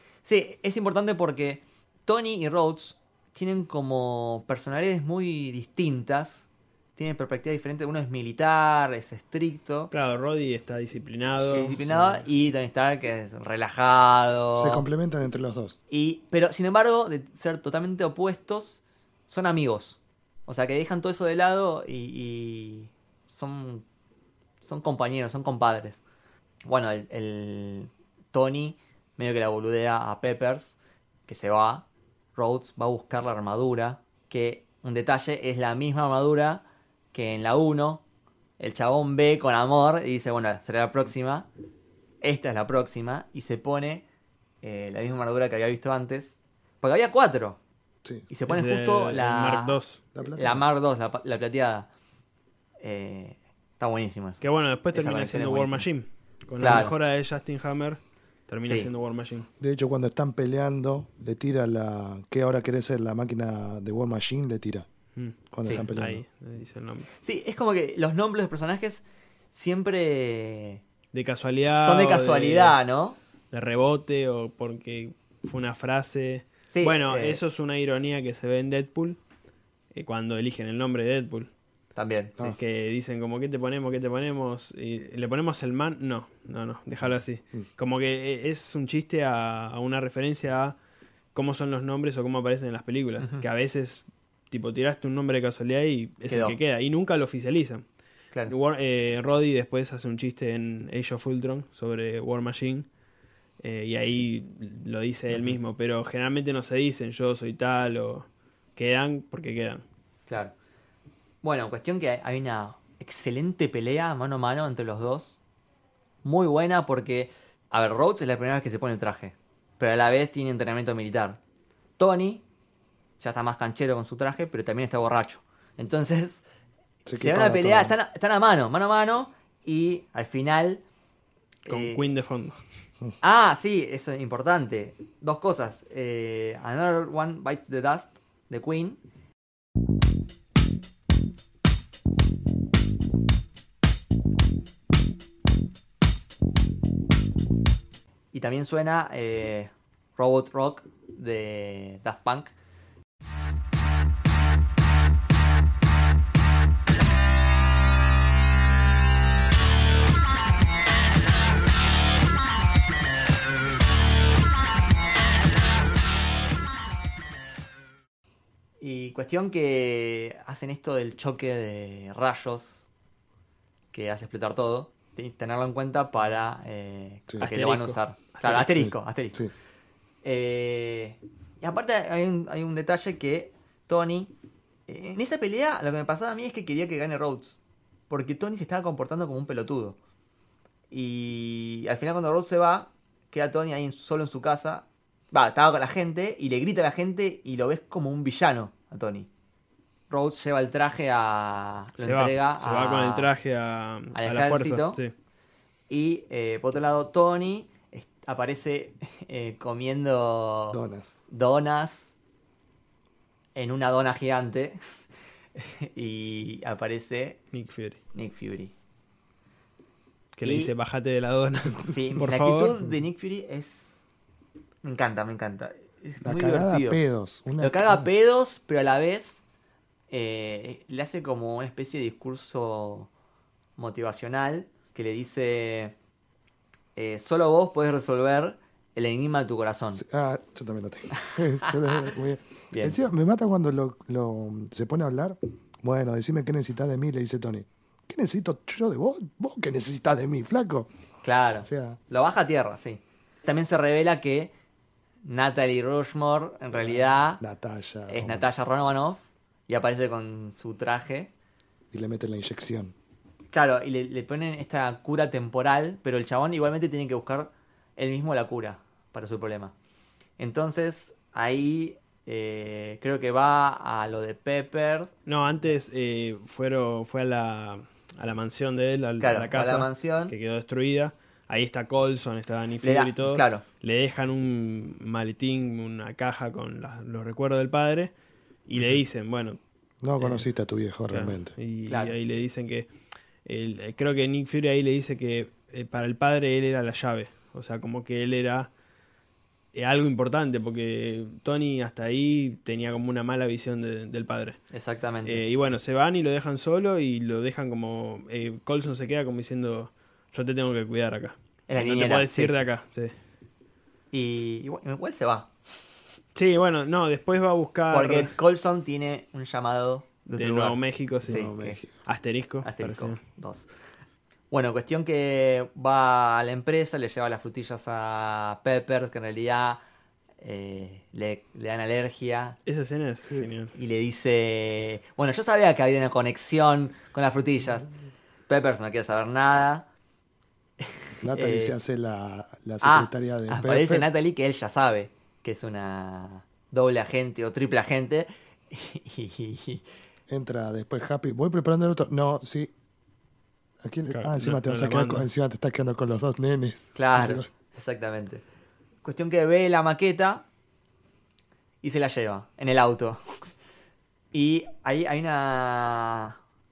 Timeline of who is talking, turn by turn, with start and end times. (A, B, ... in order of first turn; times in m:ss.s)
0:00.2-0:09.9 A
0:09.9-0:11.8 B
0:11.4-0:14.9 A
0:11.5-0:12.2 C
0:14.6-0:15.8 C
0:15.9-0:23.8 A
0:24.6-0:26.0 A
0:26.7-0:38.0 A
0:38.6-0:41.5 A
0:42.2-0:44.0 A
0:44.6-0:47.6 A
0:48.3-0:49.8 A
0:48.5-0:50.0 B
0:50.2-0:50.6 C
0:50.3-0:51.9 A
0:52.8-0:55.9 A
0:54.4-0:59.5 B
0:56.6-0:56.9 A
0:58.6-0:58.9 A
0:59.6-1:04.9 C
1:05.2-1:07.1 B
1:05.5-1:06.2 C
1:07.2-1:10.8 A
1:11.1-1:12.8 B
1:11.8-1:13.2 A
1:13.5-1:19.2 B
1:16.7-1:17.4 A
1:19.9-1:21.5 B
1:22.0-1:22.5 A
1:22.5-1:30.8 B
1:31.3-1:37.8 B
1:36.3-1:36.6 A
1:38.5-1:42.9 B
1:43.6-1:49.8 B
1:45.3-1:45.6 A
1:50.3-1:50.5 A
1:51.4-1:55.4 A
1:56.2-2:01.4 A
2:02.0-2:02.4 A
2:03.2-2:06.4 A
2:07.1-2:08.0 C
2:07.1-2:10.8 A
2:11.7-2:12.6 B
2:11.7-2:12.0 A
2:13.2-2:19.0 A
2:28.3-2:32.5 A
2:48.8-2:52.8 A
2:53.9-2:59.4 A
2:57.4-2:58.8 B
2:58.8-2:59.5 C
3:00.2-3:04.3 A
3:04.9-3:07.6 A
3:08.1-3:10.0 A
3:10.9-3:19.3 A
3:20.1-3:23.3 A
3:22.0-3:25.1 B
3:24.1-3:25.0 A
3:25.9-3:32.1 A
3:30.7-3:31.2 C
3:33.6-3:34.8 A
3:35.6-3:37.4 A
3:37.5-3:38.0 B
3:38.1-3:38.7 A
3:40.4-3:42.8 B
3:40.4-3:40.7 A
3:41.9-3:43.9 A
3:44.8-3:47.0 A
3:46.2-3:48.1 C
3:47.6-3:49.4 A
3:50.1-3:53.1 A
3:53.8-3:55.9 A
3:57.0-4:00.0 A
4:00.0-4:10.9 C
4:02.7-4:03.0 A
4:11.2-4:14.5 A
4:11.6-4:12.0 C
4:15.2-4:17.4 A
4:16.7-4:18.5 C
4:18.1-4:21.3 A
4:21.9-4:22.9 C
4:23.5-4:29.7 A
4:30.4-4:35.1 A
4:35.3-4:48.1 B
4:39.2-4:40.4 A
4:42.8-4:43.6 A
4:48.7-4:49.6 B
4:50.0-4:51.6 C
4:51.1-4:52.9 B
4:51.9-4:52.2 A
4:53.4-4:58.7 B
4:59.7-5:04.6 B
5:04.7-5:05.4 A
5:05.2-5:13.1 B
5:11.7-5:12.5 A
5:14.1-5:15.5 A
5:16.4-5:18.3 B
5:17.9-5:21.8 A
5:20.4-5:23.2 B
5:21.2-5:21.9 C
5:22.6-5:23.7 A
5:24.5-5:29.8 A
5:30.4-5:32.6 A
5:32.7-5:33.7 B
5:33.8-5:37.9 A
5:38.5-5:39.9 A
5:40.8-5:41.8 A
5:41.2-5:44.1 C
5:42.8-5:49.8 A
5:50.3-5:52.7 C
5:53.8-5:57.5 C
5:54.1-5:55.3 B
5:57.0-5:58.4 A
5:59.0-6:00.4 A
6:01.8-6:03.5 A
6:04.3-6:06.4 A